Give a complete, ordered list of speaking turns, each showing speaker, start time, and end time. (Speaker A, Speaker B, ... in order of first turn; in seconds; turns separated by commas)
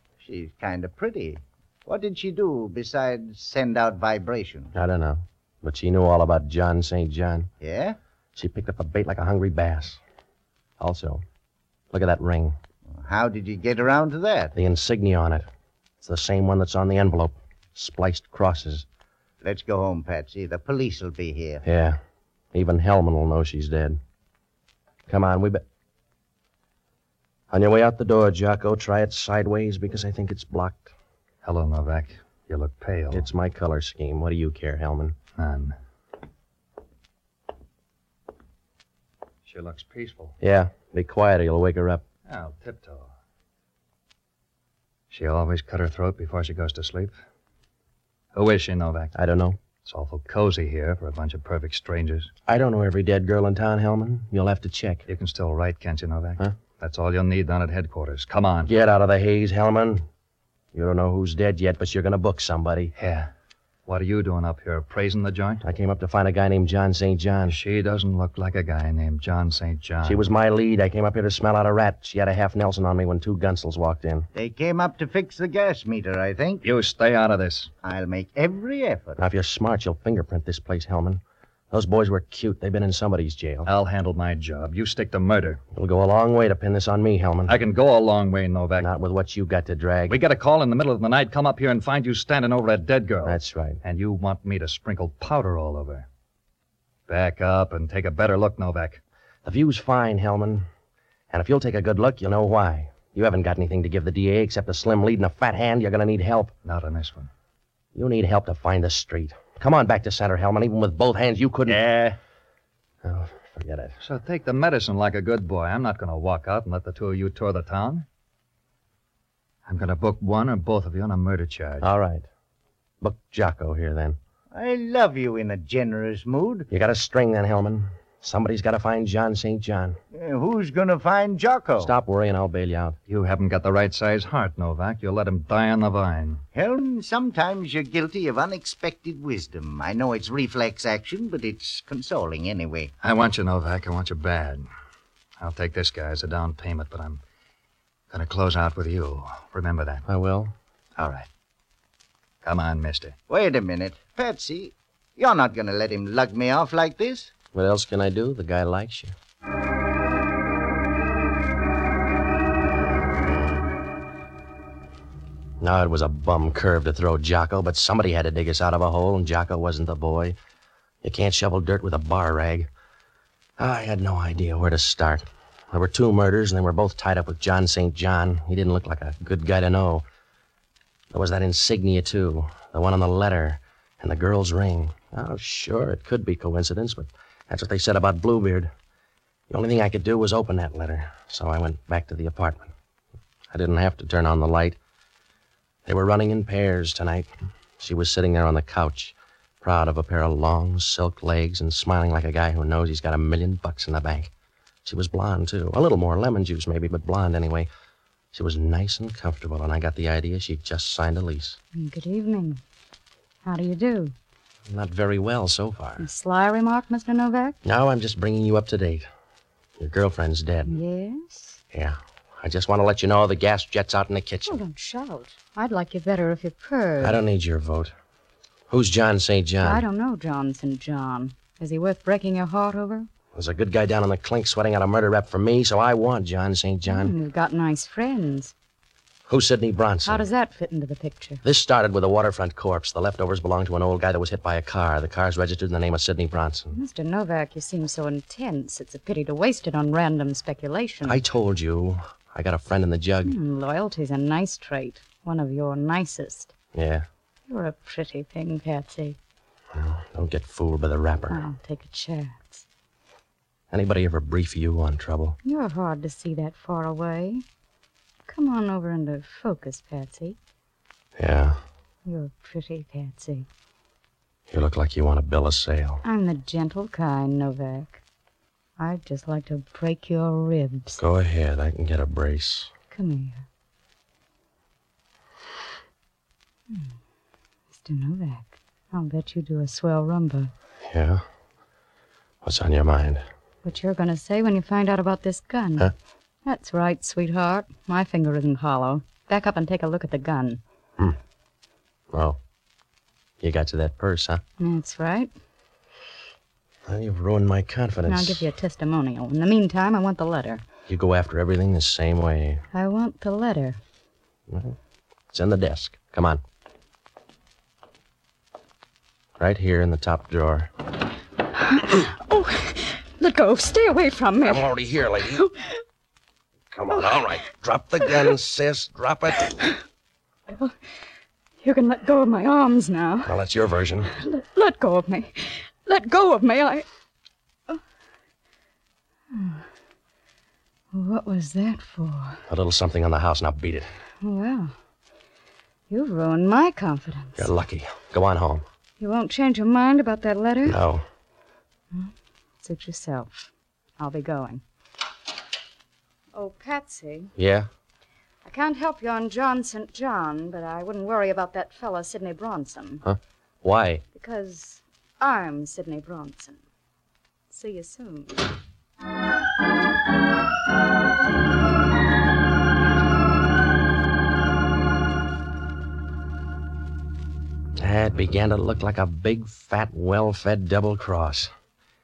Speaker A: 0.2-4.7, Speaker B: 4.7-7.5, Speaker A: 7.6-8.0, Speaker B: 8.3-10.0, Speaker B: 10.8-11.2, Speaker B: 11.9-12.6, Speaker A: 13.0-14.5, Speaker B: 14.5-15.5, Speaker B: 16.0-18.9, Speaker A: 19.4-21.6, Speaker B: 21.6-22.0, Speaker B: 22.5-24.0, Speaker B: 25.1-25.6, Speaker B: 27.5-30.9, Speaker C: 31.4-33.3, Speaker B: 33.1-35.2, Speaker C: 35.4-35.7, Speaker C: 39.5-40.3, Speaker B: 40.4-42.0, Speaker C: 42.3-43.1, Speaker C: 45.1-47.1, Speaker C: 48.3-49.1, Speaker B: 49.1-49.6, Speaker C: 49.8-52.3, Speaker B: 52.5-55.0, Speaker C: 55.1-58.7, Speaker B: 58.6-60.1, Speaker B: 60.7-62.9, Speaker C: 63.0-63.3, Speaker C: 63.9-65.6, Speaker B: 65.6-67.6, Speaker C: 67.5-70.2, Speaker B: 70.0-74.3, Speaker A: 74.3-76.6, Speaker C: 76.6-77.7, Speaker A: 77.8-79.2, Speaker B: 79.2-83.7, Speaker C: 83.7-85.6, Speaker B: 85.7-87.6, Speaker C: 87.5-88.9, Speaker B: 88.8-90.2, Speaker C: 90.1-96.1, Speaker B: 93.2-93.8, Speaker C: 97.1-99.0, Speaker B: 99.4-100.7, Speaker B: 101.3-106.5, Speaker C: 106.6-107.3, Speaker B: 107.9-111.9, Speaker B: 113.0-113.9, Speaker C: 114.0-118.0, Speaker C: 119.7-121.8, Speaker B: 121.8-122.3, Speaker B: 123.0-124.2, Speaker A: 124.5-126.7, Speaker B: 126.7-130.0, Speaker A: 130.1-131.9, Speaker B: 131.8-133.0, Speaker C: 133.1-136.4, Speaker A: 136.5-142.9, Speaker C: 143.0-144.7, Speaker C: 145.4-147.2, Speaker C: 148.1-150.0, Speaker B: 150.1-150.5, Speaker C: 151.0-151.3, Speaker C: 152.4-153.1, Speaker A: 153.3-157.3, Speaker B: 157.5-159.1, Speaker B: 163.1-163.7, Speaker B: 165.6-170.3, Speaker B: 171.0-172.7, Speaker B: 173.6-180.0, Speaker B: 181.1-188.7, Speaker B: 189.5-192.7, Speaker B: 193.5-194.8, Speaker B: 195.8-204.3, Speaker B: 204.8-207.7, Speaker B: 208.3-211.6, Speaker D: 211.7-212.6, Speaker D: 213.4-214.1, Speaker B: 214.7-216.1, Speaker D: 216.0-217.6, Speaker B: 217.6-219.1, Speaker B: 219.8-220.8, Speaker D: 220.7-221.6, Speaker B: 221.7-224.6, Speaker D: 224.4-227.2, Speaker B: 227.0-227.9, Speaker B: 228.7-229.8, Speaker D: 229.6-233.1, Speaker B: 233.3-237.1, Speaker D: 236.9-238.5, Speaker B: 239.3-240.3, Speaker D: 240.0-241.4, Speaker B: 241.4-246.8, Speaker D: 246.7-251.2, Speaker B: 251.0-253.4, Speaker D: 253.2-256.5, Speaker B: 256.7-257.1, Speaker D: 257.5-259.2, Speaker B: 259.7-261.4, Speaker D: 261.3-262.6, Speaker B: 263.7-265.4, Speaker D: 265.4-267.4, Speaker D: 268.3-270.4, Speaker B: 271.2-271.6, Speaker D: 272.1-273.5, Speaker B: 274.5-276.0, Speaker D: 276.0-278.0, Speaker D: 278.8-281.0, Speaker B: 281.0-282.7, Speaker D: 282.9-283.4, Speaker D: 287.7-290.5, Speaker B: 290.9-291.2, Speaker B: 292.4-293.2, Speaker D: 293.6-295.9, Speaker D: 296.4-300.6, Speaker B: 302.1-302.4, Speaker B: 303.4-304.4, Speaker D: 304.6-305.3, Speaker B: 306.9-308.5, Speaker D: 308.1-310.6, Speaker B: 310.9-312.6, Speaker D: 312.7-313.8, Speaker B: 314.5-314.8, Speaker B: 315.3-316.4, Speaker B: 319.4-320.7, Speaker D: 321.7-324.7, Speaker B: 324.4-325.4, Speaker D: 325.3-325.8, Speaker B: 326.7-329.5, Speaker D: 326.9-327.3, Speaker D: 331.6-333.3, Speaker B: 333.2-334.1, Speaker D: 334.1-336.9, Speaker D: 339.3-339.6, Speaker D: 340.9-342.4, Speaker B: 342.5-343.9, Speaker D: 344.2-344.7, Speaker D: 345.9-347.5, Speaker B: 347.4-348.6, Speaker D: 349.0-350.8, Speaker B: 350.6-351.1, Speaker D: 351.9-354.6, Speaker D: 356.3-357.3, Speaker B: 357.4-357.7, Speaker D: 358.4-363.0, Speaker B: 363.0-364.0, Speaker D: 364.1-366.6, Speaker D: 367.5-368.4, Speaker B: 377.8-381.5